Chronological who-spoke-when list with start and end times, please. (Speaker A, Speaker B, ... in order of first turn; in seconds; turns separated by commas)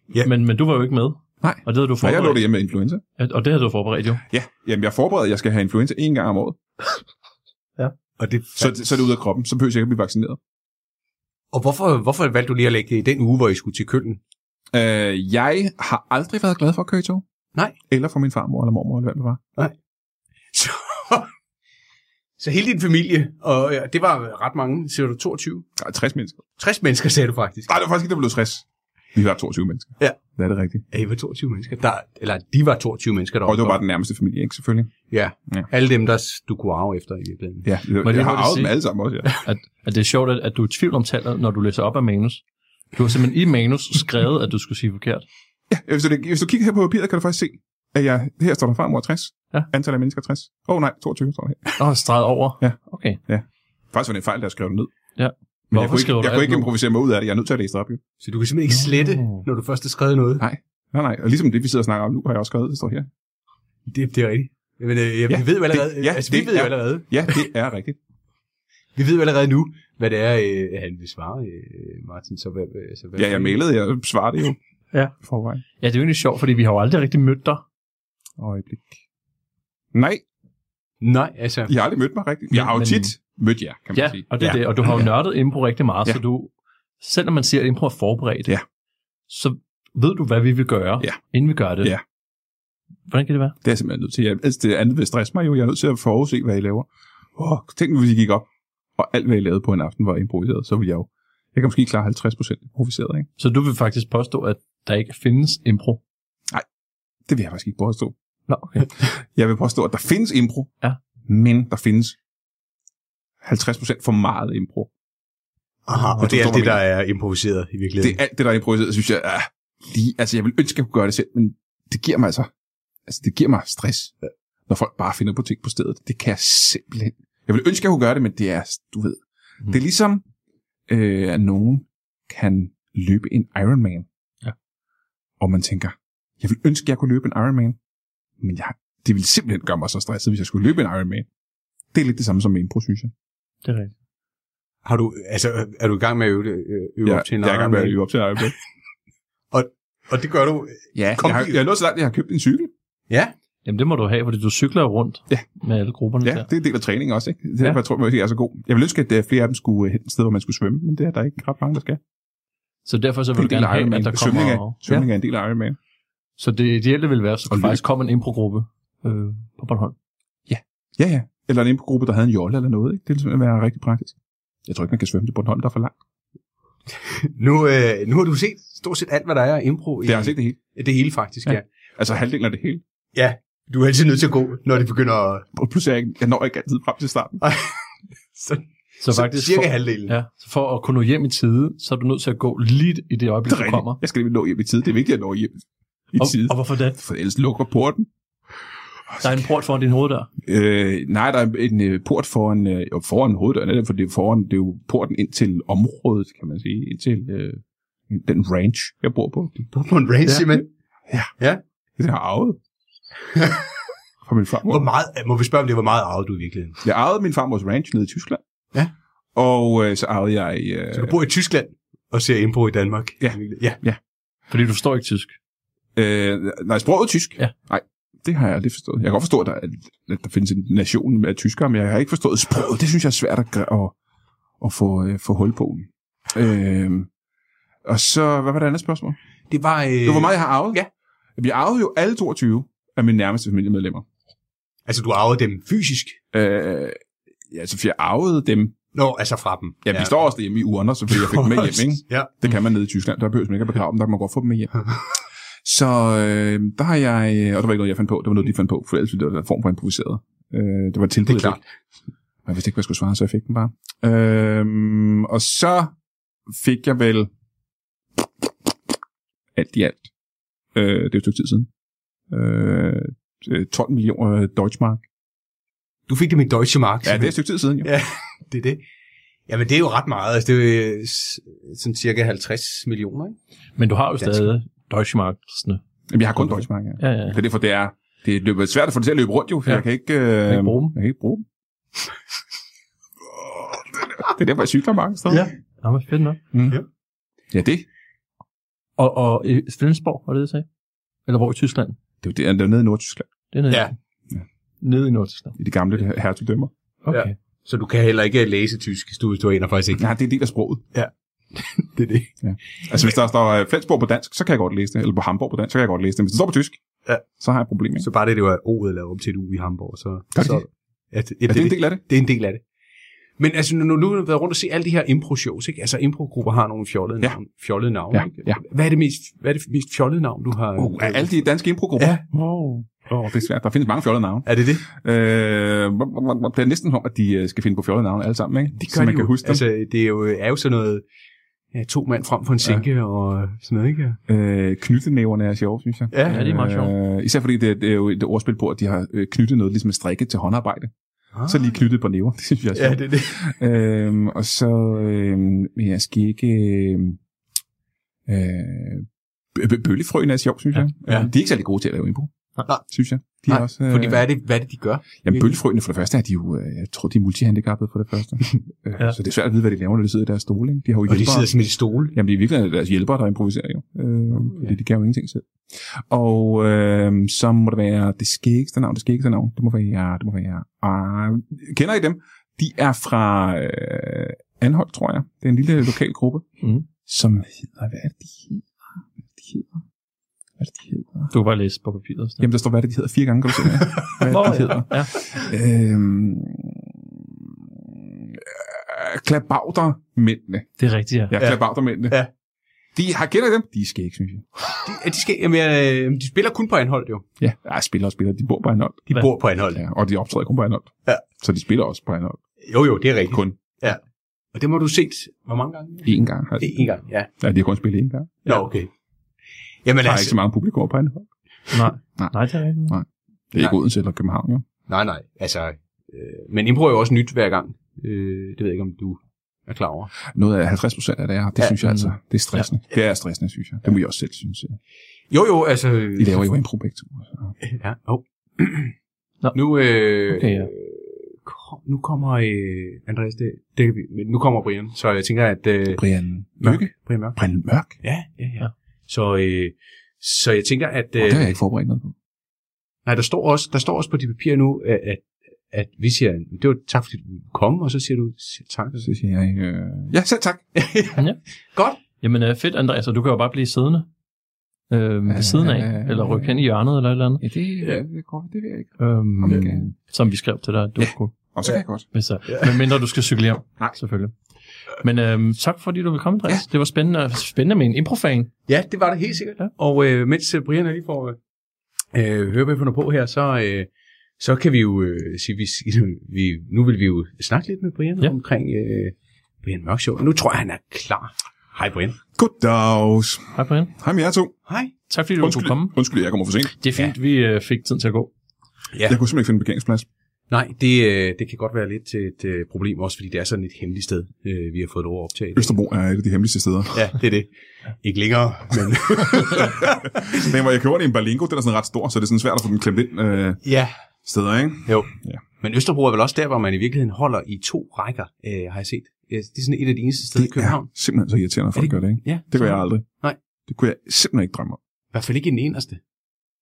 Speaker A: 0.2-2.5, Speaker B: 1.4-3.0, Speaker A: 3.2-4.2, Speaker B: 4.3-6.6, Speaker C: 8.2-8.8, Speaker B: 8.6-10.4, Speaker C: 11.5-14.2, Speaker B: 14.7-17.3, Speaker B: 17.8-19.4, Speaker C: 20.5-21.3, Speaker C: 22.4-25.7, Speaker B: 25.8-26.4, Speaker C: 26.6-27.7, Speaker B: 27.7-30.9, Speaker C: 30.0-30.3, Speaker C: 30.9-33.8, Speaker B: 33.5-35.7, Speaker C: 35.1-38.3, Speaker B: 37.6-39.3, Speaker A: 38.0-42.4, Speaker A: 42.9-45.3, Speaker B: 45.7-51.8, Speaker A: 51.8-53.2, Speaker B: 52.6-54.9, Speaker A: 55.2-56.7, Speaker B: 55.7-58.0, Speaker C: 58.2-60.5, Speaker A: 58.7-59.5, Speaker B: 60.4-63.1, Speaker C: 63.9-67.5, Speaker B: 65.3-68.0, Speaker C: 69.0-73.6, Speaker B: 73.2-74.6, Speaker A: 74.9-77.6, Speaker B: 75.2-75.6, Speaker B: 78.4-79.0, Speaker B: 79.9-80.2, Speaker C: 81.0-81.8, Speaker B: 81.7-84.2, Speaker A: 82.5-83.1, Speaker A: 83.9-88.5, Speaker A: 89.3-91.9, Speaker A: 93.1-93.6, Speaker B: 93.6-103.3, Speaker A: 103.4-106.0, Speaker B: 107.3-108.2, Speaker A: 108.5-108.9, Speaker B: 109.3-110.7, Speaker B: 111.3-112.2, Speaker B: 113.4-114.9, Speaker C: 115.9-118.2, Speaker A: 115.9-116.4, Speaker B: 116.2-116.8, Speaker B: 118.0-122.5, Speaker B: 123.1-124.2, Speaker B: 124.7-130.2, Speaker B: 130.9-134.1, Speaker B: 135.4-137.8, Speaker B: 138.4-141.3, Speaker B: 141.9-143.1, Speaker A: 143.6-143.9, Speaker C: 144.8-148.5, Speaker B: 147.0-148.6, Speaker C: 149.5-151.6, Speaker B: 150.9-152.7, Speaker A: 153.7-156.5, Speaker B: 156.2-162.0, Speaker A: 162.9-165.1, Speaker B: 163.4-165.8, Speaker C: 164.2-164.5, Speaker A: 166.4-169.9, Speaker B: 167.5-167.8, Speaker B: 170.5-175.9, Speaker C: 177.2-181.7, Speaker B: 180.0-180.6, Speaker B: 181.5-182.8, Speaker C: 183.1-185.5, Speaker B: 185.5-187.4, Speaker C: 187.4-190.2, Speaker A: 189.0-194.0, Speaker B: 193.4-198.1, Speaker A: 196.2-197.0, Speaker A: 199.2-200.3, Speaker B: 200.5-209.7, Speaker C: 209.7-210.7, Speaker B: 210.2-211.4, Speaker B: 212.0-212.6, Speaker C: 213.3-213.7, Speaker B: 214.2-214.9, Speaker C: 214.7-216.8, Speaker B: 216.8-218.4, Speaker B: 219.3-221.1, Speaker C: 220.9-223.8, Speaker B: 223.2-224.0, Speaker A: 224.5-225.4, Speaker B: 225.9-234.0, Speaker B: 234.6-237.1, Speaker B: 237.8-239.2, Speaker C: 239.5-240.9, Speaker B: 240.1-240.8, Speaker B: 241.4-244.1, Speaker C: 244.9-246.2, Speaker B: 246.3-248.8, Speaker C: 248.9-250.1, Speaker B: 249.8-255.0, Speaker C: 251.1-252.4, Speaker B: 255.6-261.6, Speaker C: 261.3-261.6, Speaker B: 262.5-265.9, Speaker B: 266.5-267.3, Speaker B: 268.2-268.8, Speaker B: 269.6-270.1, Speaker B: 270.7-271.7, Speaker B: 272.3-275.1, Speaker C: 276.1-278.8, Speaker B: 277.0-277.9, Speaker C: 279.5-283.4, Speaker A: 283.8-285.8, Speaker C: 284.2-284.5, Speaker B: 286.1-291.4, Speaker A: 286.4-287.4, Speaker A: 290.4-291.0, Speaker B: 294.2-295.4, Speaker A: 295.3-296.4, Speaker B: 296.5-296.8, Speaker B: 297.5-297.9, Speaker A: 299.0-300.7, Speaker A: 301.3-302.0, Speaker B: 302.2-303.3, Speaker A: 303.5-303.9, Speaker C: 303.7-303.9, Speaker A: 304.8-305.6, Speaker B: 305.6-306.7, Speaker A: 307.0-307.4, Speaker C: 307.1-310.1, Speaker B: 310.0-310.9, Speaker C: 310.9-312.4, Speaker B: 312.4-318.1, Speaker C: 318.0-322.6, Speaker B: 320.3-320.6, Speaker B: 321.5-322.1, Speaker C: 323.4-331.4, Speaker B: 328.1-328.6, Speaker B: 330.8-332.3, Speaker C: 332.0-332.2, Speaker A: 332.4-332.9, Speaker B: 332.9-339.6, Speaker C: 334.5-334.8, Speaker C: 338.7-341.1, Speaker C: 341.7-344.2, Speaker B: 344.3-350.9, Speaker C: 346.1-346.5, Speaker A: 346.3-346.9, Speaker C: 351.3-351.7, Speaker B: 351.5-357.2, Speaker C: 352.8-353.5, Speaker B: 358.3-364.4, Speaker C: 361.1-361.3, Speaker C: 362.7-365.6, Speaker B: 365.2-386.5, Speaker C: 371.1-372.2, Speaker C: 374.4-374.7, Speaker B: 387.1-388.7, Speaker B: 389.4-389.8, Speaker B: 390.6-391.3, Speaker A: 391.3-392.5, Speaker B: 392.4-402.3, Speaker A: 394.3-395.2, Speaker A: 400.8-401.3, Speaker C: 401.4-402.3, Speaker B: 402.9-404.5, Speaker C: 404.8-407.3, Speaker B: 407.4-412.6, Speaker C: 409.1-409.8, Speaker C: 412.6-414.0, Speaker B: 413.3-413.8, Speaker C: 414.5-417.4, Speaker B: 416.1-418.5, Speaker C: 418.5-418.9, Speaker C: 419.8-420.4, Speaker B: 420.0-421.3, Speaker A: 421.7-423.0, Speaker B: 422.2-424.7, Speaker C: 424.9-430.1, Speaker B: 430.3-434.8, Speaker A: 431.8-432.7, Speaker C: 435.3-436.5, Speaker B: 436.2-437.6, Speaker C: 437.6-438.9, Speaker A: 439.4-440.7, Speaker C: 439.5-446.1, Speaker B: 445.9-448.0, Speaker C: 446.6-451.6, Speaker B: 451.2-452.1, Speaker C: 453.1-459.1, Speaker B: 459.0-460.7, Speaker C: 460.8-462.0, Speaker A: 461.2-461.4, Speaker A: 462.0-464.1, Speaker A: 464.9-467.4, Speaker B: 465.3-466.8, Speaker B: 467.4-469.9, Speaker A: 469.0-474.4, Speaker C: 469.5-469.7, Speaker B: 471.0-472.1, Speaker A: 474.9-478.6, Speaker C: 478.7-481.4, Speaker C: 482.1-492.2, Speaker B: 492.4-494.6, Speaker A: 493.6-493.9, Speaker C: 494.7-494.9, Speaker A: 495.1-496.1, Speaker B: 495.4-496.9, Speaker A: 496.8-498.3, Speaker C: 498.9-499.2, Speaker B: 499.1-500.1, Speaker C: 500.5-505.8, Speaker B: 505.6-507.0, Speaker C: 506.9-510.2, Speaker B: 509.3-513.6, Speaker C: 513.6-514.0, Speaker B: 514.2-515.4, Speaker C: 514.9-521.0, Speaker B: 520.4-524.8, Speaker C: 521.7-523.4, Speaker C: 525.1-526.0